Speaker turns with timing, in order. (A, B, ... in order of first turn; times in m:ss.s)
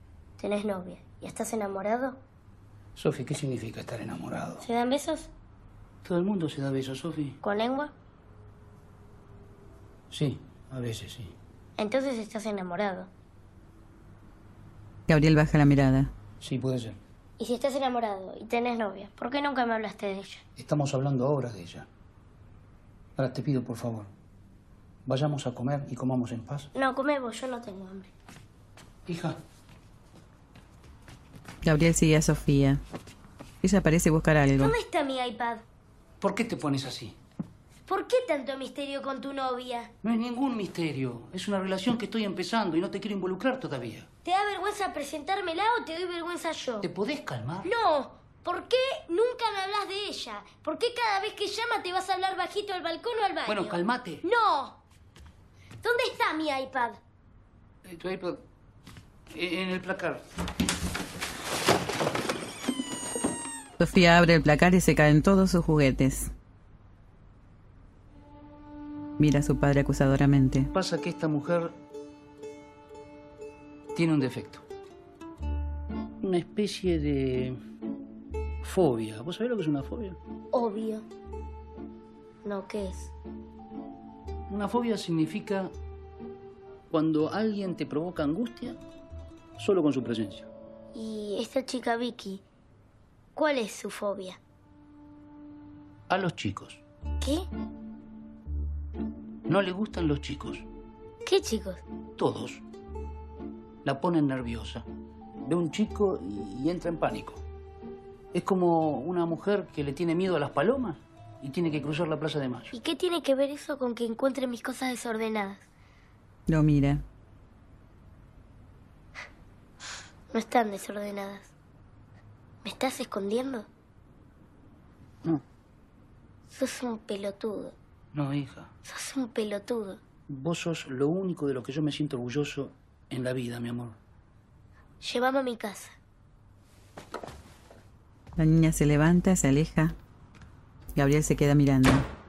0:00.4-0:02.2 A
0:03.0-0:04.6 B
0:04.6-0:05.3 A
0:06.0-0:07.4 B
0:07.4-0:07.9 A
0:10.1-0:11.3 B
0:11.8-0:13.1 A
0:15.1-0:16.1 C
0:16.4-0:17.0 B
0:17.4-0:20.4 A
0:20.6-0:21.8 B
0:23.2-0:24.1 B
0:25.0-0:26.7 B
0:26.7-0:28.1 A
0:29.1-0:29.4 B
0:31.6-0:32.8 C
0:33.6-0:34.7 C
0:34.6-0:35.6 A
0:36.2-0:37.2 B
0:37.9-0:39.9 A
0:40.0-0:44.1 B
0:44.2-0:46.9 A
0:46.8-0:47.7 B
0:47.6-0:54.8 A
0:53.4-0:54.2 B
0:55.8-0:57.0 A
0:57.8-0:58.4 B
0:59.3-1:00.2 B
1:03.8-1:06.3 C
1:09.2-1:10.7 C
1:10.7-1:11.7 B
1:13.9-1:14.6 B
1:16.2-1:17.6 B
1:18.6-1:20.2 B
1:20.5-1:21.0 A
1:22.4-1:23.1 A
1:24.5-1:25.7 B
1:26.9-1:28.8 B
1:29.6-1:30.5 B
1:30.9-1:32.4 A
1:33.3-1:34.4 A
1:36.1-1:36.8 B
1:37.2-1:37.5 A
1:39.5-1:40.6 B
1:41.2-1:41.8 A
1:42.2-1:42.6 B
1:43.8-1:44.8 B
1:45.4-1:47.4 B
1:48.3-1:52.7 B
1:52.7-1:55.6 A
1:56.5-1:57.0 C
2:00.3-2:01.5 A
2:02.6-2:03.7 A
2:06.5-2:07.7 A
2:08.1-2:08.7 B
2:08.8-2:10.0 A
2:10.3-2:14.0 B
2:15.0-2:15.9 A
2:18.4-2:20.0 C
2:20.9-2:22.1 C